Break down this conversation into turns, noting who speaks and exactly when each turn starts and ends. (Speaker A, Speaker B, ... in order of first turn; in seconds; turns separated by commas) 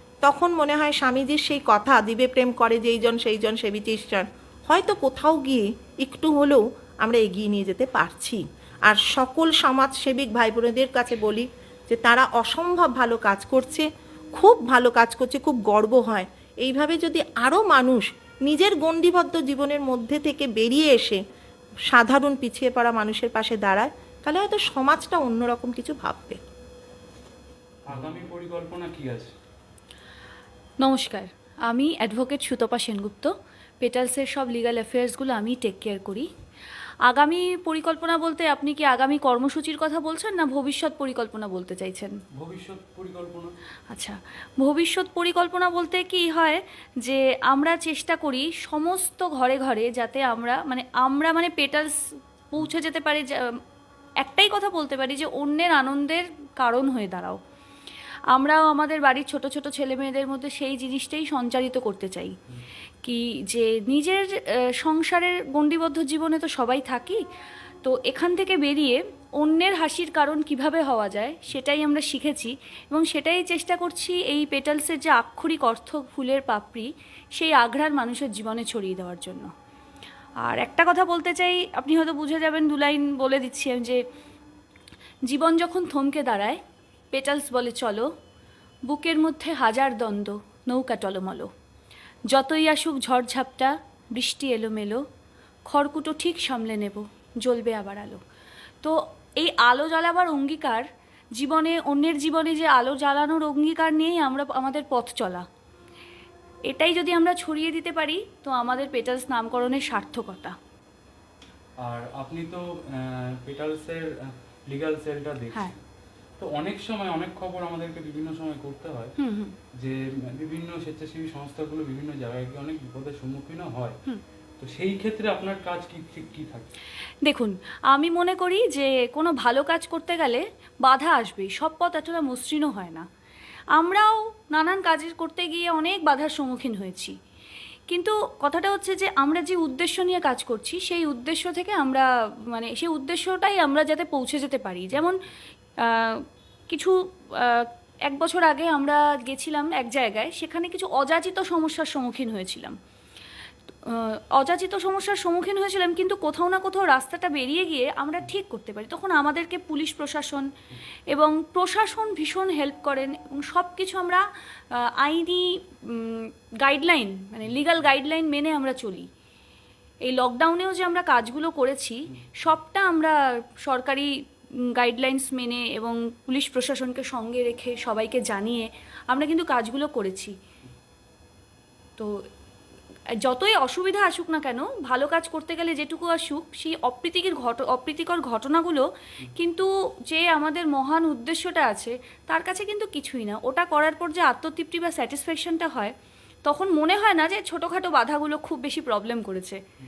Speaker A: 0.2-21.2, Speaker A: 21.9-26.4, Speaker B: 27.9-29.3, Speaker C: 30.8-36.3, Speaker C: 37.1-42.1, Speaker B: 42.3-43.5, Speaker C: 43.9-52.0, Speaker C: 52.5-53.6, Speaker C: 54.2-57.4, Speaker C: 58.3-62.3, Speaker C: 63.0-67.2, Speaker C: 67.8-79.5, Speaker C: 80.4-84.0, Speaker C: 85.3-86.6, Speaker C: 87.1-88.0, Speaker C: 88.9-91.5, Speaker C: 92.3-95.0, Speaker C: 95.7-98.2, Speaker C: 98.8-100.8, Speaker C: 101.4-105.4, Speaker C: 106.7-110.5, Speaker B: 111.8-115.8, Speaker B: 116.4-119.1, Speaker C: 119.2-119.5, Speaker B: 119.8-124.0, Speaker B: 124.6-126.7, Speaker C: 127.2-133.0, Speaker C: 133.7-137.1, Speaker C: 137.9-145.2, Speaker C: 145.8-152.7, Speaker C: 153.9-160.4, Speaker C: 161.1-164.2, Speaker C: 165.0-169.1, Speaker C: 170.1-174.1, Speaker C: 174.8-180.3, Speaker C: 183.2-195.9, Speaker C: 196.4-199.6